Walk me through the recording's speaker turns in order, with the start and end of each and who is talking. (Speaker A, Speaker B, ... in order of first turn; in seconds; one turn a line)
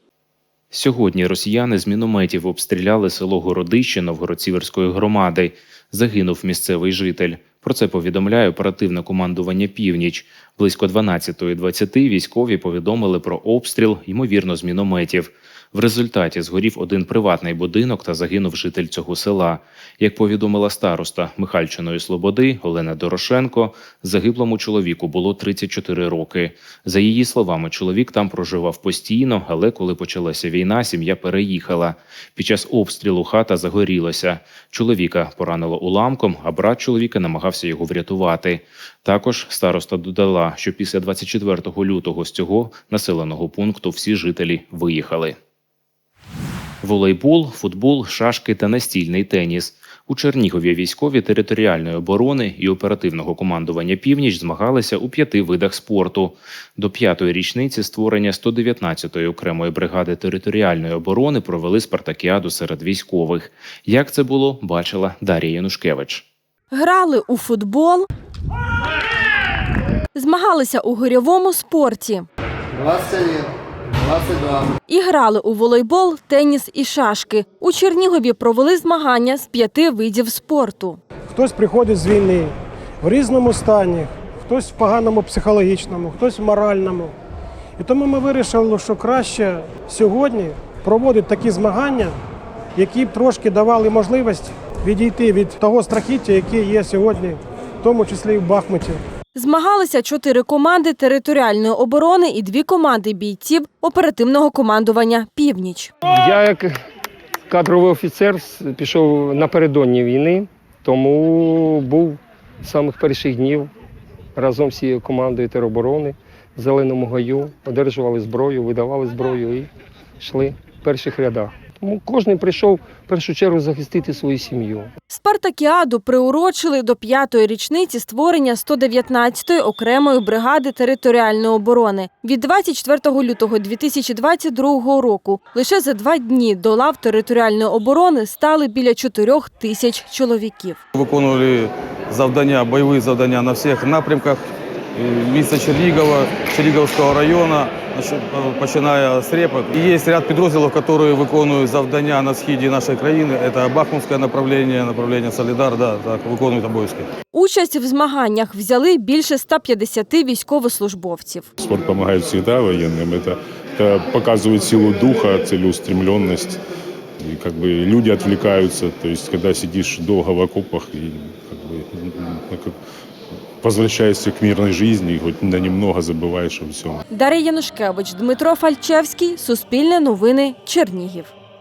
Speaker A: 0.7-45.4
Speaker A: 46.8-66.2
Speaker B: 66.7-68.1
Speaker B: 70.1-72.3
Speaker B: 74.9-81.0
Speaker C: 81.3-87.1
Speaker C: 87.8-92.2
Speaker C: 92.8-99.0
Speaker B: 99.3-105.9
Speaker D: 106.0-106.8
Speaker D: 107.5-113.7
Speaker D: 114.4-119.7
Speaker D: 120.2-124.9
Speaker B: 125.1-140.8
Speaker E: 140.9-157.1
Speaker B: 157.3-161.5
Speaker F: 161.6-166.6
Speaker F: 167.2-172.7
Speaker F: 173.6-177.0
Speaker B: 177.1-181.3